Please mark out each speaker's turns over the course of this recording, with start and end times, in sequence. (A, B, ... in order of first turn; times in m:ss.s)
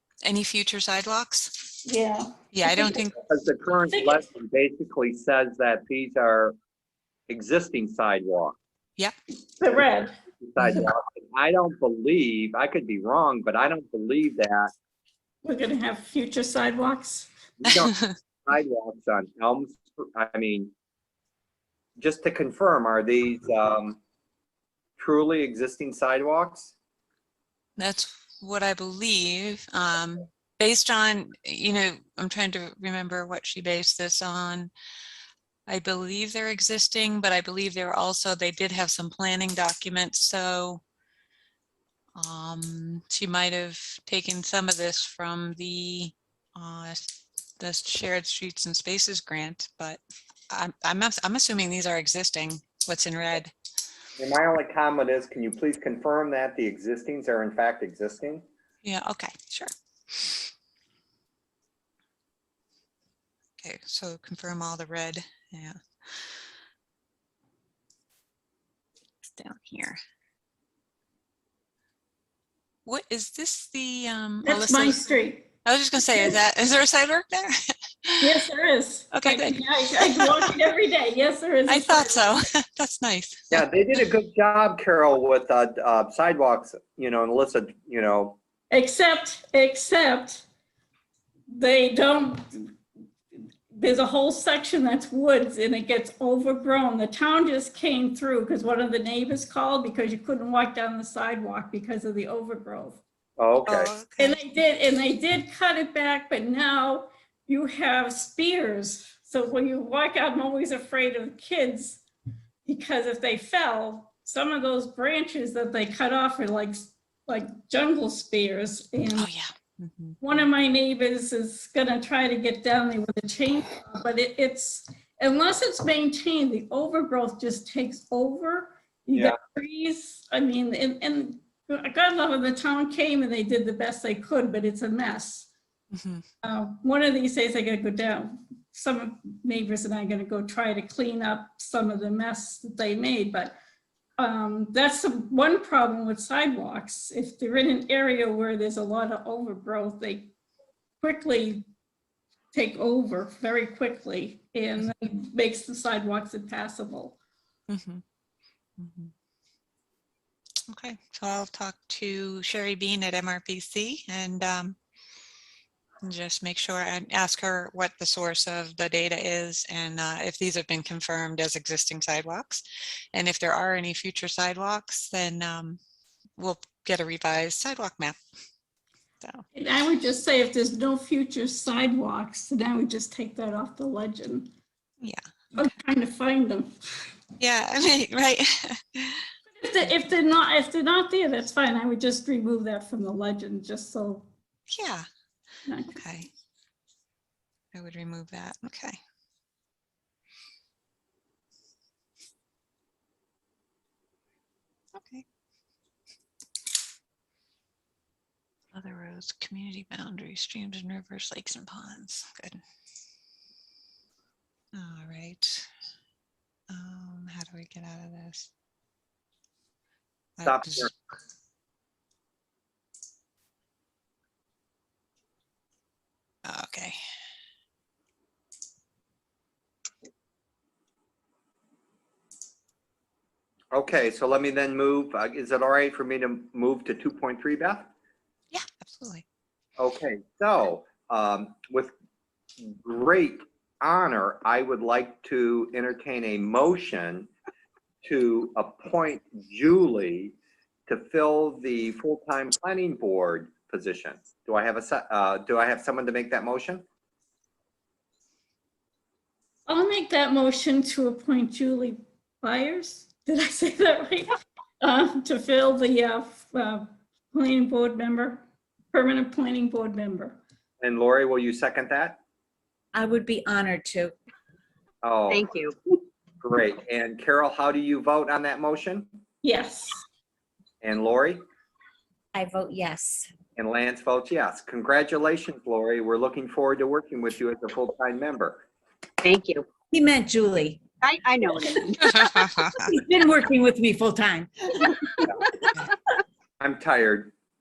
0:00.2-0:01.6 A
0:01.8-0:03.0 B
0:02.5-0:03.2 A
0:03.3-0:06.5 C
0:03.9-0:04.2 B
0:07.3-0:08.6 C
0:09.6-0:10.1 B
0:10.4-0:14.7 C
0:10.6-0:10.9 A
0:15.4-0:17.3 B
0:17.6-0:20.7 C
0:22.0-0:24.0 C
0:25.0-0:26.7 C
0:27.8-0:34.7 A
0:35.7-0:40.8 A
0:42.2-0:47.0 A
0:47.6-0:50.0 A
0:50.5-0:53.5 A
0:54.2-0:58.4 C
0:58.8-1:00.4 A
1:03.6-1:05.8 A
1:09.2-1:10.0 A
1:12.8-1:15.0 A
1:14.4-1:15.5 B
1:15.6-1:17.5 A
1:18.0-1:18.4 A
1:18.2-1:22.4 B
1:19.1-1:20.5 A
1:21.7-1:23.6 A
1:23.5-1:28.4 C
1:28.7-1:30.4 B
1:31.5-1:32.7 B
1:33.7-1:43.0 B
1:43.4-1:43.9 C
1:43.6-1:44.4 A
1:44.2-1:52.0 B
1:52.6-1:59.3 B
1:59.1-2:00.2 A
2:00.2-2:15.5 B
2:15.9-2:16.2 A
2:16.4-2:23.6 B
2:24.2-2:30.3 B
2:31.0-2:31.6 B
2:32.5-2:37.2 B
2:37.7-2:38.0 A
2:38.8-2:39.1 A
2:40.7-2:44.8 A
2:46.0-2:55.8 A
2:56.4-2:58.2 A
2:59.5-3:04.5 B
3:05.0-3:05.8 A
3:05.6-3:07.1 B
3:07.4-3:09.2 A
3:09.6-3:14.3 B
3:14.7-3:15.1 A
3:15.7-3:16.0 B
3:15.9-3:16.3 A
3:17.7-3:19.0 A
3:25.0-3:25.2 A
3:28.7-3:32.6 A
3:34.8-3:35.7 A
3:36.7-3:38.5 A
3:40.4-3:41.0 A
3:40.4-3:40.9 C
3:46.4-3:47.0 A
3:53.7-3:57.9 C
3:58.5-3:59.2 A
3:59.8-4:01.9 C
4:02.6-4:07.3 C
4:08.0-4:10.4 C
4:10.9-4:16.8 C
4:19.7-4:30.4 B
4:30.8-4:32.2 C
4:32.9-4:34.1 D
4:35.0-4:35.5 C
4:35.3-4:35.8 E
4:36.4-4:39.1 C
4:39.4-4:40.0 B
4:40.8-4:41.4 C
4:42.3-4:43.3 D
4:43.6-4:48.6 C
4:49.2-4:49.6 E
4:49.9-4:50.8 D
4:51.0-4:52.5 E
4:52.0-4:52.8 A
4:52.8-4:54.7 D
4:56.6-4:57.3 C